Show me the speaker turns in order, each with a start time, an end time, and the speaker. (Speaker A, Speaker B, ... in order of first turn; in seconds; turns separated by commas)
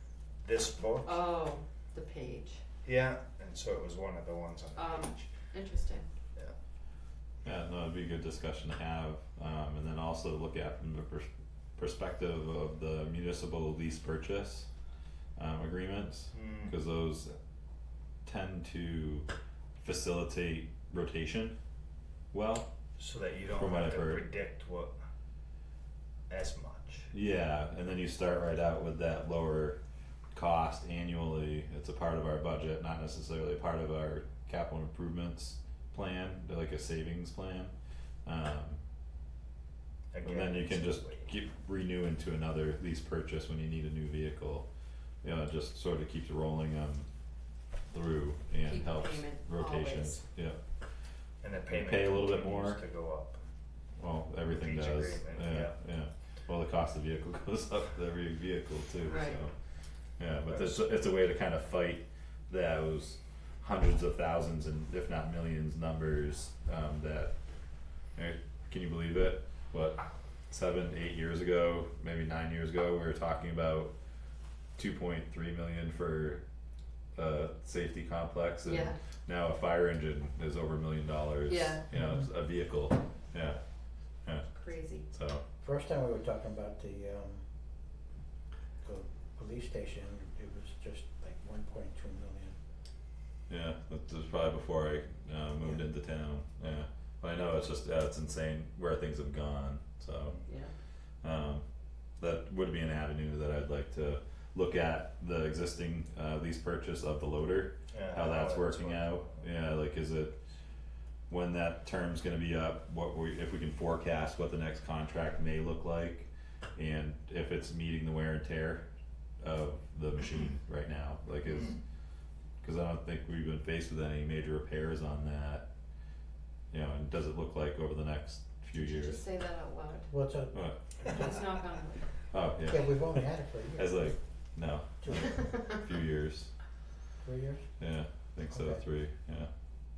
Speaker A: 0.4-1.2, Speaker B: 1.0-2.6, Speaker A: 2.8-5.5, Speaker B: 4.7-6.0, Speaker C: 7.4-14.7, Speaker C: 15.3-17.3, Speaker A: 16.3-16.7, Speaker C: 18.2-19.3, Speaker C: 19.8-21.6, Speaker C: 22.3-22.7, Speaker A: 23.0-24.9, Speaker C: 23.5-24.2, Speaker A: 26.3-27.1, Speaker C: 27.1-29.8, Speaker C: 30.3-37.7, Speaker C: 38.2-38.8, Speaker A: 40.1-41.3, Speaker C: 40.2-44.6, Speaker C: 45.2-47.1, Speaker C: 47.9-50.6, Speaker B: 48.6-50.2, Speaker A: 51.4-53.4, Speaker C: 51.8-52.8, Speaker C: 54.0-59.5, Speaker A: 54.5-55.7, Speaker B: 59.0-59.4, Speaker C: 60.2-67.3, Speaker A: 60.5-60.8, Speaker C: 68.1-73.9, Speaker C: 74.8-76.4, Speaker C: 77.2-83.6, Speaker B: 78.6-79.0, Speaker B: 81.5-81.8, Speaker C: 84.2-84.5, Speaker B: 84.5-85.1, Speaker C: 85.1-85.4, Speaker D: 85.6-87.4, Speaker D: 88.8-92.6, Speaker C: 93.5-100.4, Speaker B: 100.5-100.7, Speaker C: 101.2-101.6, Speaker C: 102.2-110.4, Speaker A: 107.9-109.4, Speaker C: 111.3-118.8, Speaker C: 119.4-121.7, Speaker C: 122.6-125.7, Speaker C: 126.7-129.2, Speaker B: 128.7-130.1, Speaker D: 130.1-131.4, Speaker C: 130.5-130.8, Speaker B: 131.0-132.0, Speaker C: 132.3-136.5, Speaker D: 132.6-134.1, Speaker D: 135.0-135.3, Speaker B: 135.2-135.8, Speaker D: 137.2-137.7, Speaker C: 137.8-139.5, Speaker D: 138.5-138.8